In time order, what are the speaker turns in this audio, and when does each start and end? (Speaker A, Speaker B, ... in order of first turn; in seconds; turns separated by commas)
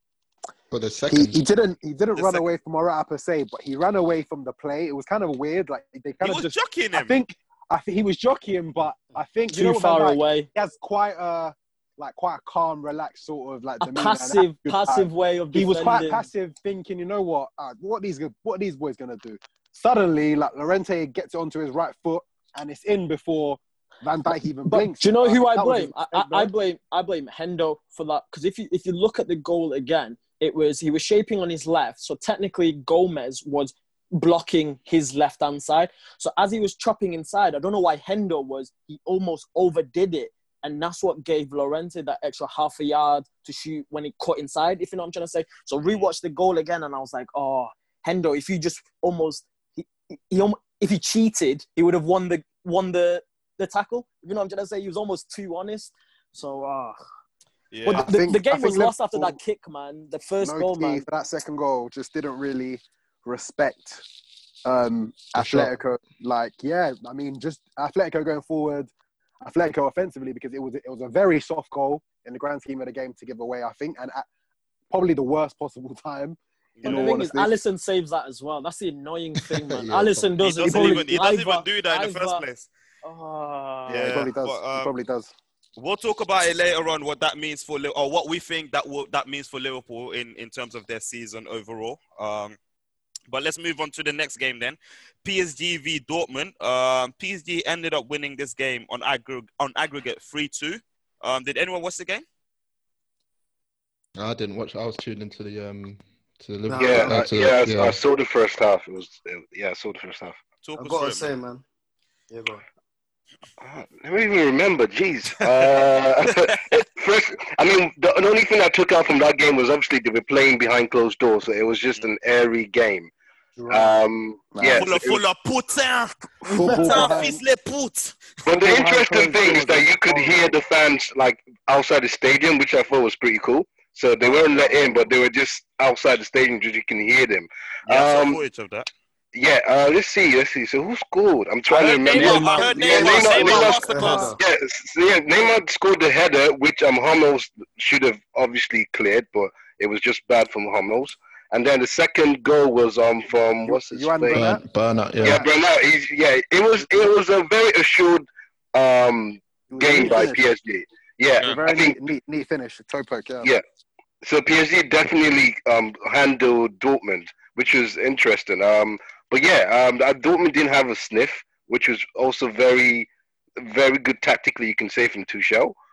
Speaker A: 0.7-1.4, Speaker B: 1.1-26.5, Speaker C: 2.1-2.4, Speaker C: 6.2-7.2, Speaker D: 9.5-10.5, Speaker D: 13.8-16.2, Speaker D: 24.6-57.0, Speaker C: 57.7-58.1, Speaker B: 57.9-59.4, Speaker D: 57.9-61.0, Speaker B: 60.4-64.0, Speaker B: 64.6-68.9, Speaker A: 65.3-65.7, Speaker B: 69.4-74.3, Speaker B: 74.9-77.5, Speaker C: 76.8-77.2, Speaker D: 76.8-82.5, Speaker A: 79.7-80.3, Speaker C: 80.4-82.7, Speaker B: 80.6-81.2, Speaker D: 83.0-84.0, Speaker B: 83.9-85.3, Speaker C: 83.9-84.9, Speaker C: 85.8-92.5, Speaker C: 93.3-102.2, Speaker A: 104.2-108.0, Speaker E: 106.7-107.5, Speaker F: 106.7-110.4, Speaker C: 110.6-111.3, Speaker E: 110.8-111.6, Speaker E: 112.3-112.6, Speaker F: 113.6-123.1, Speaker C: 116.3-116.6, Speaker F: 123.7-125.2, Speaker B: 124.5-124.9, Speaker C: 124.8-128.4, Speaker B: 126.4-127.4, Speaker D: 126.5-127.2, Speaker F: 128.4-138.4, Speaker B: 128.5-130.5, Speaker B: 134.5-134.9, Speaker C: 137.8-138.9, Speaker F: 139.3-154.5, Speaker C: 141.7-144.3, Speaker E: 142.1-144.4, Speaker B: 142.6-144.3, Speaker B: 153.6-154.6, Speaker A: 154.3-155.4, Speaker F: 155.2-162.0, Speaker B: 159.7-160.5, Speaker B: 161.4-163.5, Speaker F: 164.2-173.1, Speaker F: 173.6-175.8